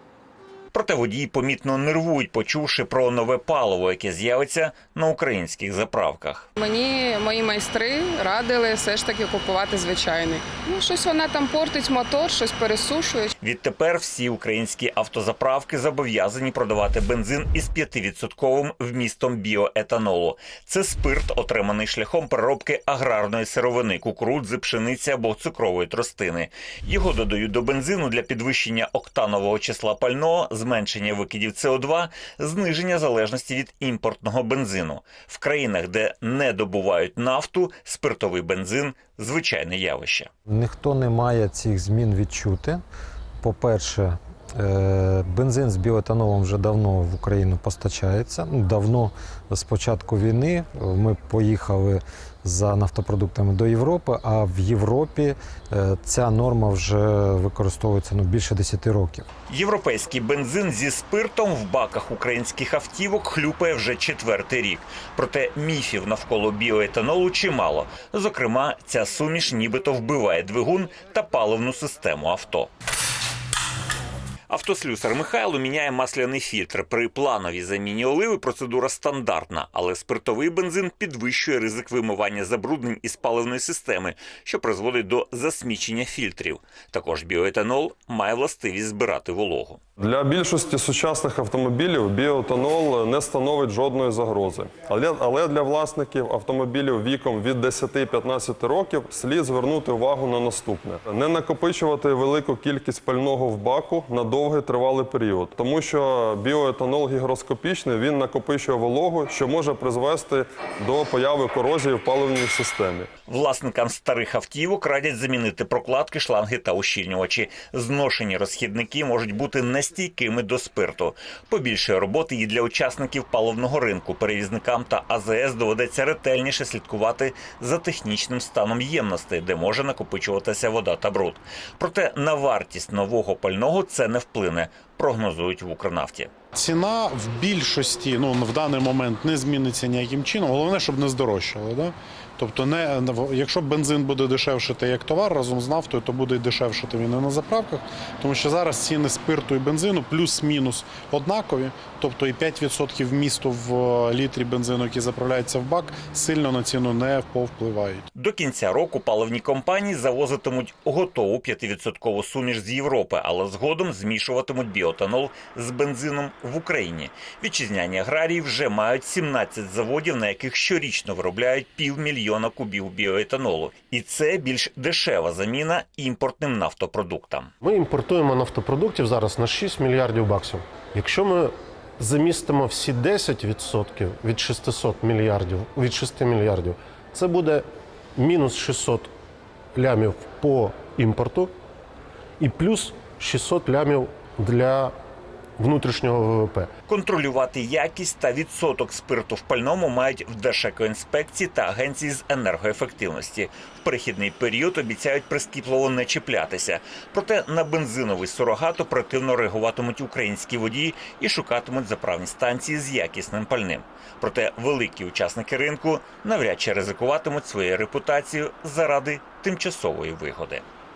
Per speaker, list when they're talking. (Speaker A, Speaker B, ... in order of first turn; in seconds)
Speaker A: 0.7-6.5, 13.4-40.3, 59.5-72.7, 74.5-89.8, 113.3-136.3, 158.1-177.5, 196.9-220.6
Speaker B: 6.6-13.3
Speaker C: 40.5-42.8, 43.4-59.3
Speaker D: 90.0-113.1
Speaker E: 136.5-158.1
Speaker F: 177.6-189.1, 189.7-191.5, 192.4-194.9, 195.6-196.7